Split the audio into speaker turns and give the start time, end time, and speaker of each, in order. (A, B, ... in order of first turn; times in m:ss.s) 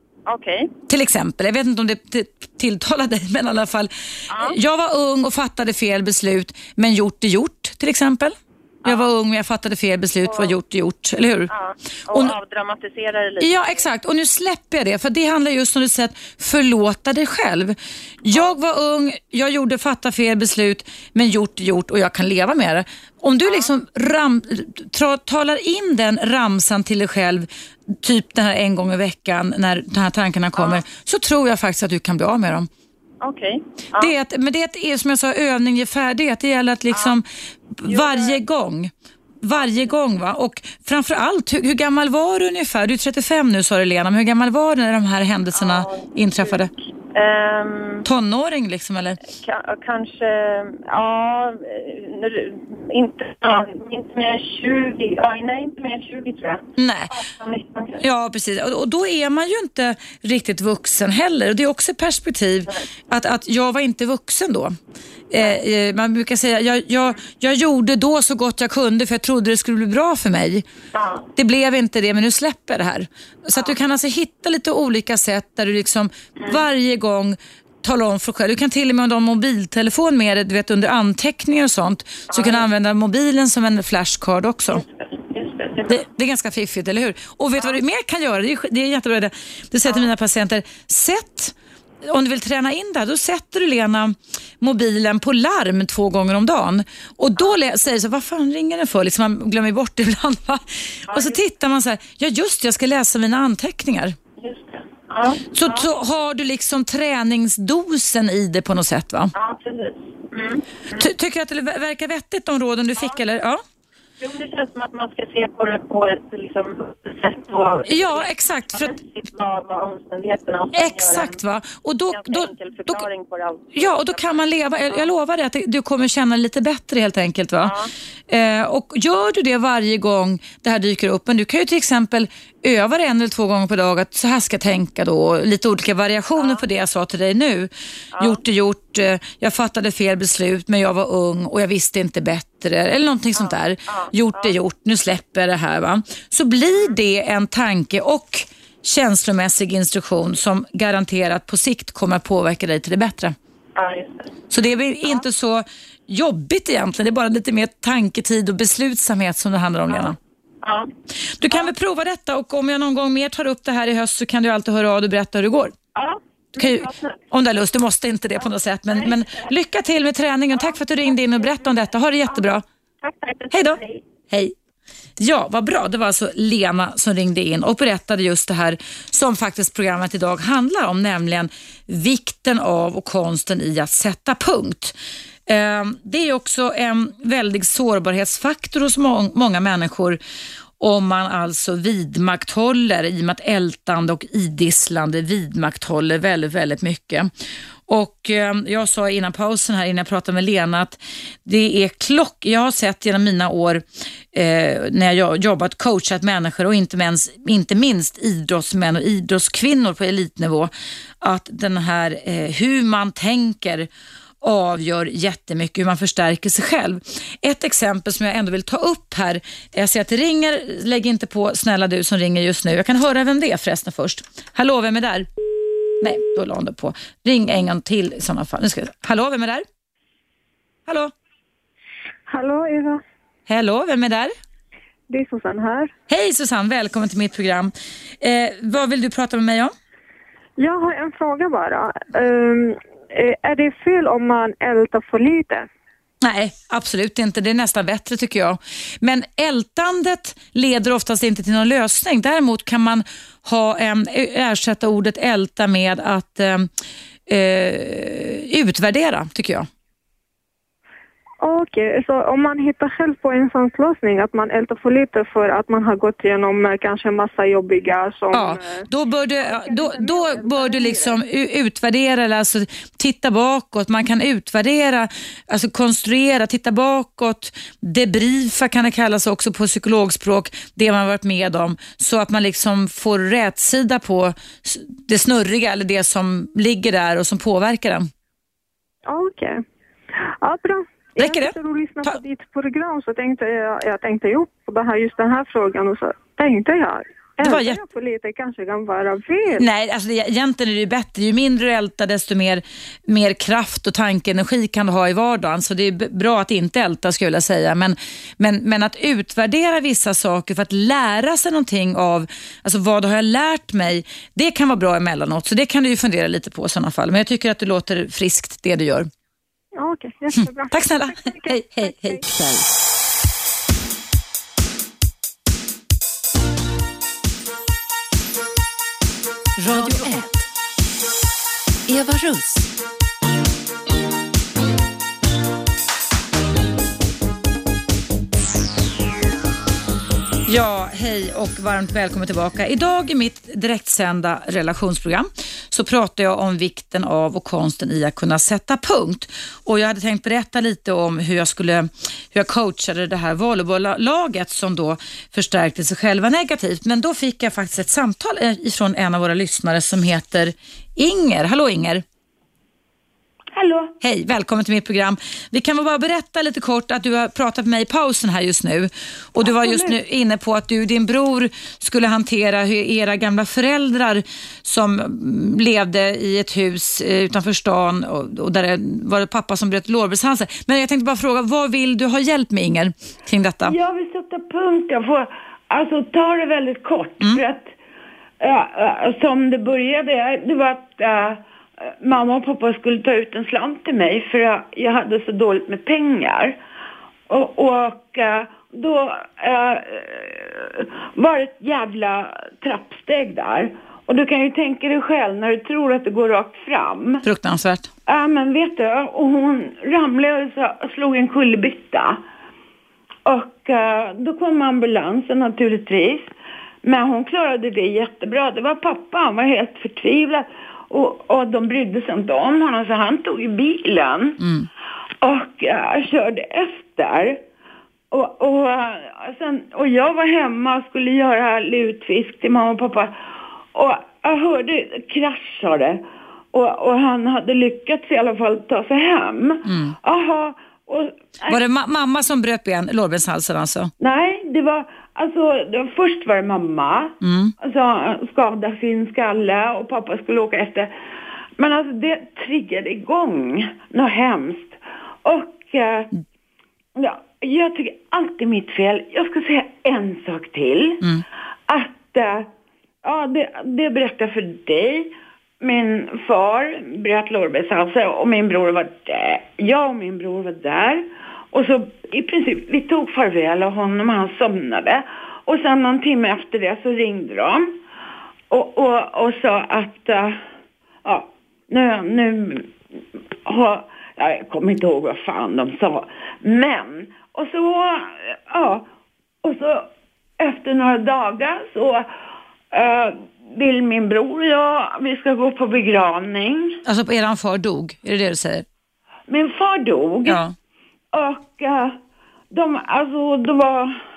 0:00.3-0:00.7 A
0:00.9-0:11.5 B
0:04.3-0:04.6 A
0:11.5-0:13.8 A
0:12.1-0:12.4 B
0:13.4-0:32.7 B
0:33.2-0:34.1 A
0:34.0-0:46.7 B
0:37.9-0:38.4 A
0:45.5-0:46.6 A
0:47.1-0:48.0 A
0:48.0-0:49.2 B
0:49.3-0:58.0 A
0:56.8-0:57.1 B
0:58.0-1:04.8 B
1:05.3-1:10.6 B
1:10.9-1:11.2 A
1:11.4-1:24.8 B
1:22.3-1:22.6 A
1:24.7-1:26.0 A
1:25.9-1:31.5 B
1:32.1-1:44.2 B
1:41.1-1:41.4 A
1:44.4-1:45.9 A
1:45.5-1:49.3 B
1:49.3-1:51.1 A
1:50.9-1:53.6 B
1:54.2-2:01.4 A
1:57.9-1:58.9 B
2:00.7-2:03.0 B
2:02.1-2:05.1 A
2:03.7-2:07.7 B
2:07.6-2:07.9 A
2:08.3-2:33.3 B
2:18.1-2:18.4 A
2:23.4-2:24.5 A
2:33.8-2:34.3 A
2:34.5-2:40.2 B
2:40.6-2:40.9 A
2:41.4-2:45.7 B
2:45.9-2:47.2 A
2:46.6-2:52.6 B
2:49.0-2:49.4 A
2:50.6-2:51.7 A
2:53.0-2:54.0 A
2:53.5-2:54.5 B
2:55.2-3:04.9 B
3:05.5-3:10.2 B
3:10.8-3:17.3 B
3:17.9-3:33.9 B
3:34.4-3:45.3 B
3:46.0-3:49.6 B
3:50.9-3:51.1 B
3:52.3-3:53.0 C
3:53.5-3:54.3 B
3:55.1-3:55.9 C
3:56.1-3:59.7 B
4:00.6-4:05.7 C
4:06.2-4:16.7 B
4:17.3-4:19.7 B
4:21.4-4:28.9 C
4:28.3-4:48.1 B
4:29.4-4:31.2 C
4:49.0-4:49.6 C
4:50.4-4:59.7 C
4:51.2-4:52.2 B
4:57.4-4:57.8 B
4:59.5-5:19.1 B
5:19.7-5:22.2 C
5:20.3-5:22.2 B
5:22.3-5:22.6 D
5:29.6-5:30.5 D
5:31.9-5:32.7 D
5:40.5-6:02.0 B
6:03.5-6:03.9 E
6:04.0-6:23.8 B
6:09.4-6:09.9 E
6:23.6-6:27.7 E
6:28.4-6:36.6 E
6:37.3-6:47.2 E
6:47.2-6:47.9 B
6:48.1-6:52.2 E
6:53.2-6:56.3 E
6:56.8-7:04.4 E
7:04.4-7:04.7 B
7:05.2-7:07.4 E
7:08.1-7:13.2 E
7:13.7-7:21.6 E
7:19.6-7:20.0 B
7:21.5-7:23.9 B
7:24.0-7:30.9 E
7:27.2-7:27.5 B
7:31.6-7:36.1 E
7:37.0-7:41.0 E
7:41.7-7:42.5 E
7:43.0-7:57.7 E
7:58.5-8:00.4 E
8:01.0-8:02.7 E
8:03.4-8:08.9 E
8:09.4-8:09.9 E
8:10.4-8:12.1 E
8:12.7-8:16.8 E
8:16.8-8:18.6 B
8:19.3-8:20.4 E
8:20.2-8:20.5 B
8:21.1-8:22.0 E
8:22.5-8:24.0 E